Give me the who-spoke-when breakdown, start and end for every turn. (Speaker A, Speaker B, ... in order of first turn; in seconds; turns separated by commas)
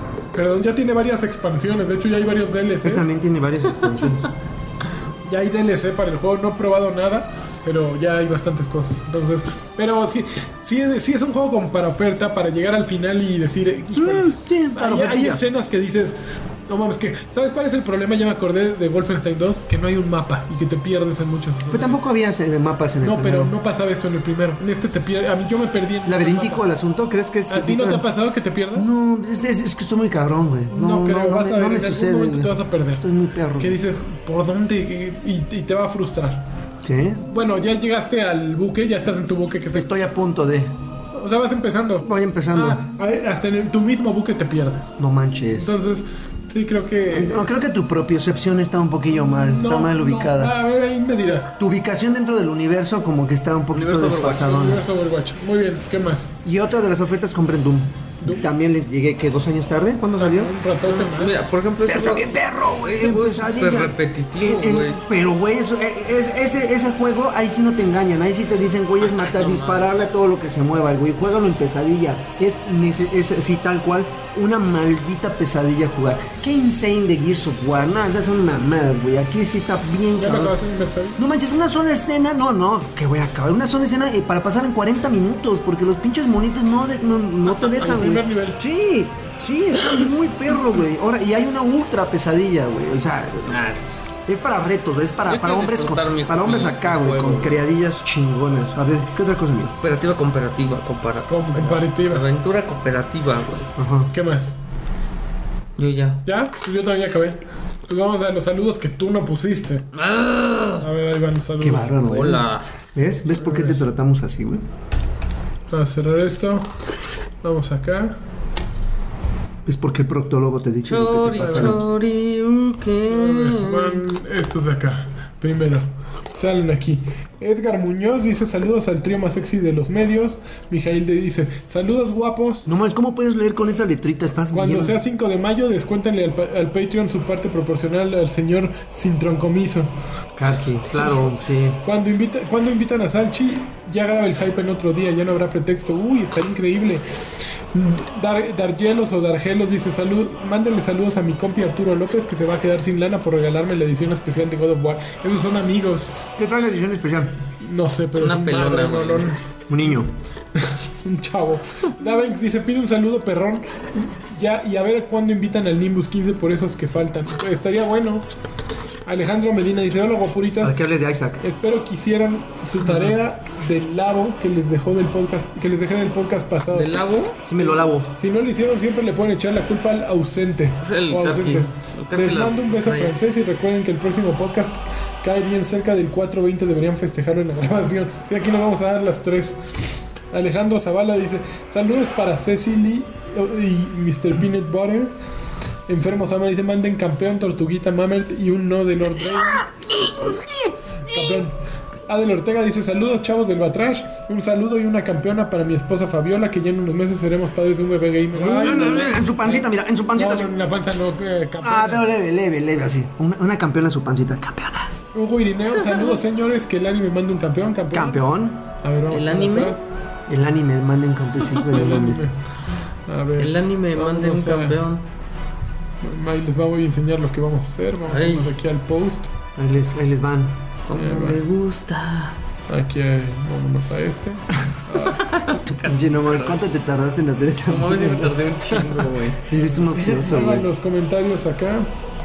Speaker A: 0.3-3.1, Speaker B: 2.8-4.3, Speaker A: 5.2-16.2, Speaker B: 13.9-15.4, Speaker A: 16.7-22.0, Speaker B: 21.7-23.5, Speaker A: 23.0-26.7, Speaker B: 26.1-28.1, Speaker A: 27.5-28.9, Speaker B: 28.8-33.8, Speaker A: 30.7-33.0, Speaker A: 33.6-36.4, Speaker B: 36.8-37.2, Speaker A: 37.3-39.9, Speaker B: 39.7-40.7, Speaker A: 41.1-45.0, Speaker B: 42.0-42.9, Speaker B: 45.0-45.7, Speaker A: 45.6-47.5, Speaker B: 47.1-50.5, Speaker A: 49.3-51.6, Speaker B: 51.6-54.8, Speaker C: 53.7-54.6, Speaker A: 54.4-56.3, Speaker B: 56.4-60.5, Speaker A: 58.2-58.5, Speaker A: 60.2-61.3, Speaker C: 60.8-65.0, Speaker B: 61.9-80.6, Speaker C: 69.0-69.9, Speaker A: 80.2-81.2, Speaker B: 81.2-93.5, Speaker A: 87.6-88.6, Speaker C: 93.5-94.0, Speaker B: 94.3-99.7, Speaker C: 95.3-97.6, Speaker C: 99.8-103.7, Speaker A: 101.3-102.2, Speaker B: 103.8-104.1, Speaker A: 104.1-104.5, Speaker C: 105.8-106.2, Speaker A: 106.3-109.9, Speaker C: 109.9-110.9, Speaker A: 110.8-112.0, Speaker B: 111.6-114.6, Speaker C: 112.0-112.7, Speaker A: 113.3-113.8, Speaker A: 115.7-116.7, Speaker A: 117.4-118.2, Speaker B: 119.7-121.8, Speaker C: 120.8-124.0, Speaker A: 121.4-121.8, Speaker A: 123.1-132.7, Speaker B: 132.7-134.9, Speaker A: 134.5-139.9, Speaker B: 140.4-141.8, Speaker A: 141.8-147.1, Speaker A: 147.7-156.3, Speaker B: 156.4-157.3, Speaker A: 157.6-159.4, Speaker C: 158.2-159.4, Speaker B: 159.7-160.1, Speaker A: 160.6-168.2, Speaker A: 169.1-170.8, Speaker B: 170.6-171.4, Speaker A: 171.4-189.6, Speaker C: 172.8-173.1, Speaker C: 176.7-177.4, Speaker B: 177.5-178.1, Speaker C: 180.8-183.2, Speaker A: 190.3-195.1, Speaker A: 195.9-199.7, Speaker B: 199.4-201.4, Speaker A: 201.1-201.6, Speaker A: 202.1-212.1, Speaker B: 208.3-210.5, Speaker C: 208.6-209.2, Speaker B: 211.6-214.9, Speaker A: 215.1-218.2, Speaker B: 217.9-218.6, Speaker A: 218.8-219.8, Speaker C: 219.1-219.7, Speaker B: 220.3-222.3, Speaker A: 221.6-222.3, Speaker A: 223.1-224.8, Speaker C: 223.4-225.0, Speaker A: 226.0-229.3, Speaker C: 228.1-228.5, Speaker B: 229.6-230.6, Speaker C: 230.9-232.4, Speaker A: 231.0-231.4, Speaker A: 232.7-235.4, Speaker C: 235.1-236.6, Speaker B: 235.7-238.8, Speaker C: 237.7-239.4, Speaker B: 239.4-240.7, Speaker A: 239.9-241.9